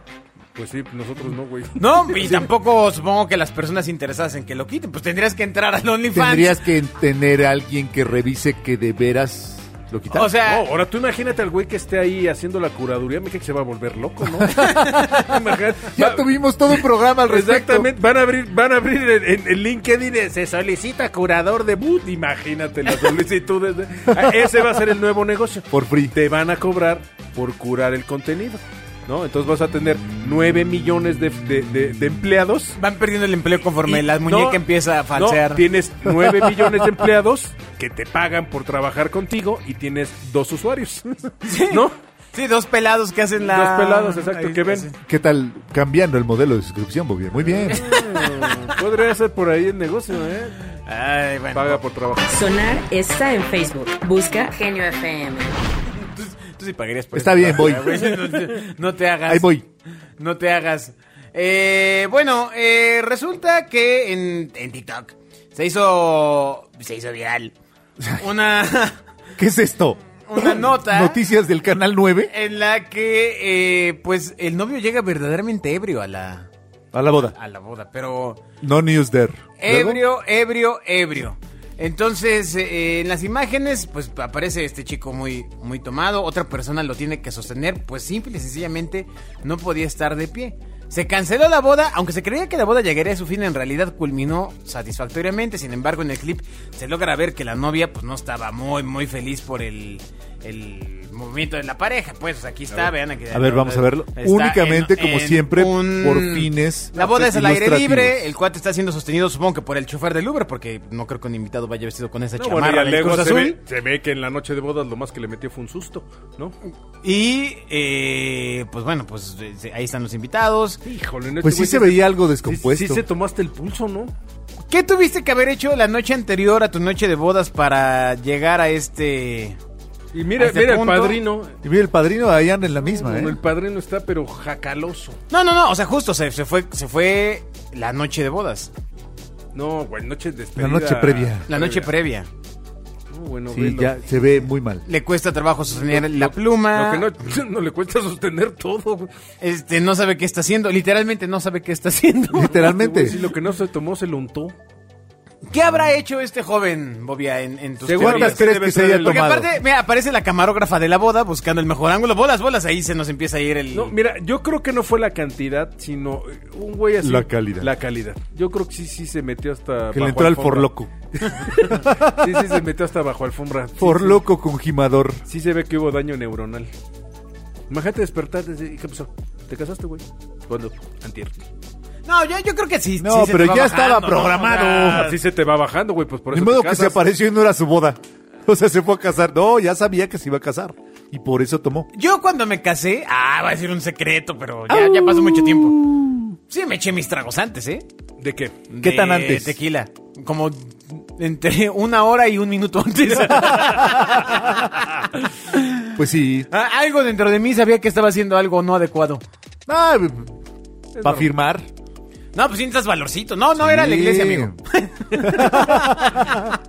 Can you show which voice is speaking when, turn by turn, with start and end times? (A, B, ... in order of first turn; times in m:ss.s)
0:00.5-0:02.5 A
0:01.8-0:06.6 B
0:06.1-0:10.3 C
0:10.1-0:10.7 B
0:10.4-0:32.8 A
0:14.5-0:15.3 B
0:15.9-0:17.9 C
0:25.7-0:26.1 C
0:32.8-0:35.6 B
0:33.8-0:34.6 A
0:35.1-0:41.9 A
0:36.2-0:36.6 C
0:41.4-0:44.9 B
0:43.4-0:44.9 A
0:45.0-0:47.9 C
0:47.5-0:50.6 A
0:47.7-0:48.7 B
0:50.8-0:51.8 B
0:51.5-0:52.4 A
0:52.2-0:55.6 D
0:55.9-0:59.5 B
0:57.1-0:58.1 C
0:59.3-0:59.6 C
1:00.2-1:07.5 B
1:08.1-1:09.0 B
1:09.4-1:12.3 C
1:10.3-1:11.2 B
1:12.3-1:16.5 B
1:16.9-1:17.3 C
1:17.2-1:18.4 B
1:18.6-1:20.0 C
1:19.6-1:53.6 B
1:43.3-1:48.2 C
1:52.4-1:56.6 A
1:57.0-2:00.8 B
2:00.8-2:04.1 A
2:01.4-2:03.0 C
2:04.7-2:09.6 B
2:10.1-2:11.5 A
2:10.4-2:11.2 B
2:11.6-2:13.4 C
2:12.8-2:15.2 A
2:15.3-2:18.7 B
2:19.5-2:21.9 A
2:20.6-2:21.4 C
2:21.5-2:22.3 B
2:23.1-2:23.9 A
2:23.5-2:24.8 C
2:24.8-2:27.1 B
2:25.7-2:29.1 A
2:29.4-2:32.7 B
2:32.3-2:33.2 C
2:32.5-2:34.5 A
2:35.5-2:43.9 B
2:37.8-2:39.4 A
2:38.0-2:39.5 C
2:43.7-2:50.7 A
2:47.0-2:47.7 C
2:49.9-2:50.9 C
2:51.3-2:54.2 A
2:51.5-2:52.4 C
2:53.8-2:55.2 C
2:55.3-2:56.7 A
2:57.7-3:01.4 A
3:02.0-3:05.2 B
3:03.0-3:05.1 C
3:04.8-3:07.0 A
3:06.3-3:11.9 C
3:11.9-3:15.8 B
3:14.7-3:16.4 C
3:16.5-3:17.8 B
3:18.2-3:18.6 A
3:18.7-3:25.9 B
3:18.8-3:19.6 C
3:23.6-3:24.0 C
3:26.0-3:26.5 C
3:26.5-3:29.2 B
3:29.7-3:30.3 C
3:30.9-3:31.3 A
3:31.0-3:31.6 C
3:32.3-3:36.5 B
3:33.6-3:34.6 C
3:35.2-3:36.4 C